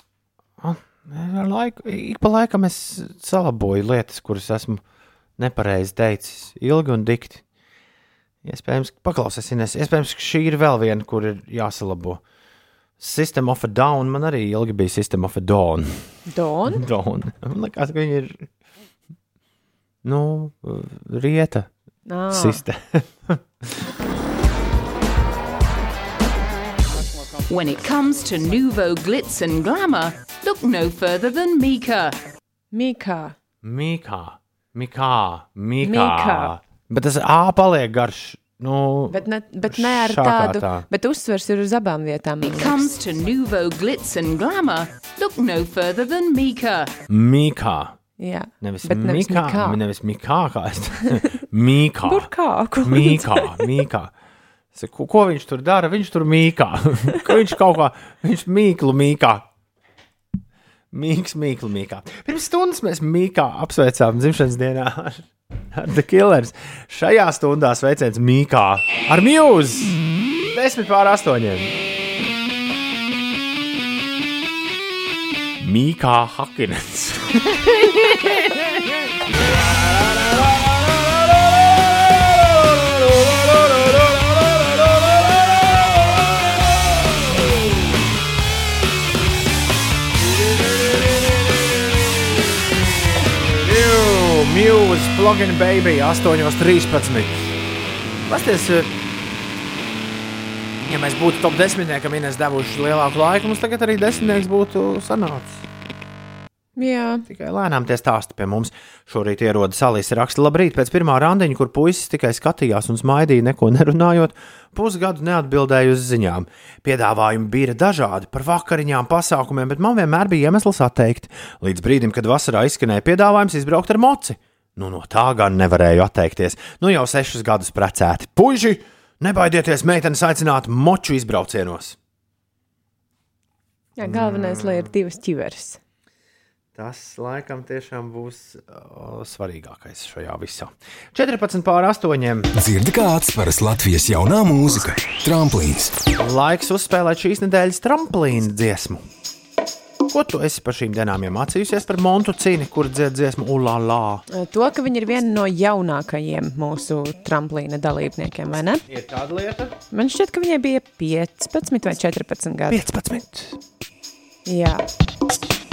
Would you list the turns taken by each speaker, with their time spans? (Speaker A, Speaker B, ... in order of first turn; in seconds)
Speaker A: 0.6-4.8, 5.4-7.4, 8.4-12.2, 13.0-16.1, 16.7-18.5, 20.0-21.7, 22.3-23.8, 33.6-40.9, 47.1-48.0, 48.6-52.3, 52.8-54.1, 54.7-59.5, 60.9-70.0, 70.5-71.8, 75.6-78.9, 79.6-87.4, 90.4-91.6, 93.2-97.5, 98.2-98.9, 100.8-105.6, 107.2-132.0, 134.0-134.9, 136.7-142.5, 146.2-149.0, 150.1-154.2, 158.8-159.8, 162.7-163.6
Speaker B: 16.3-16.8, 22.1-22.6, 32.7-33.3, 35.8-36.5, 39.1-42.7, 48.2-49.8, 52.0-53.7, 106.8-107.2, 134.0-135.8, 154.3-158.8, 159.9-162.8, 164.4-164.8
Speaker C: 27.5-32.1, 42.5-46.9
Speaker D: 142.5-145.9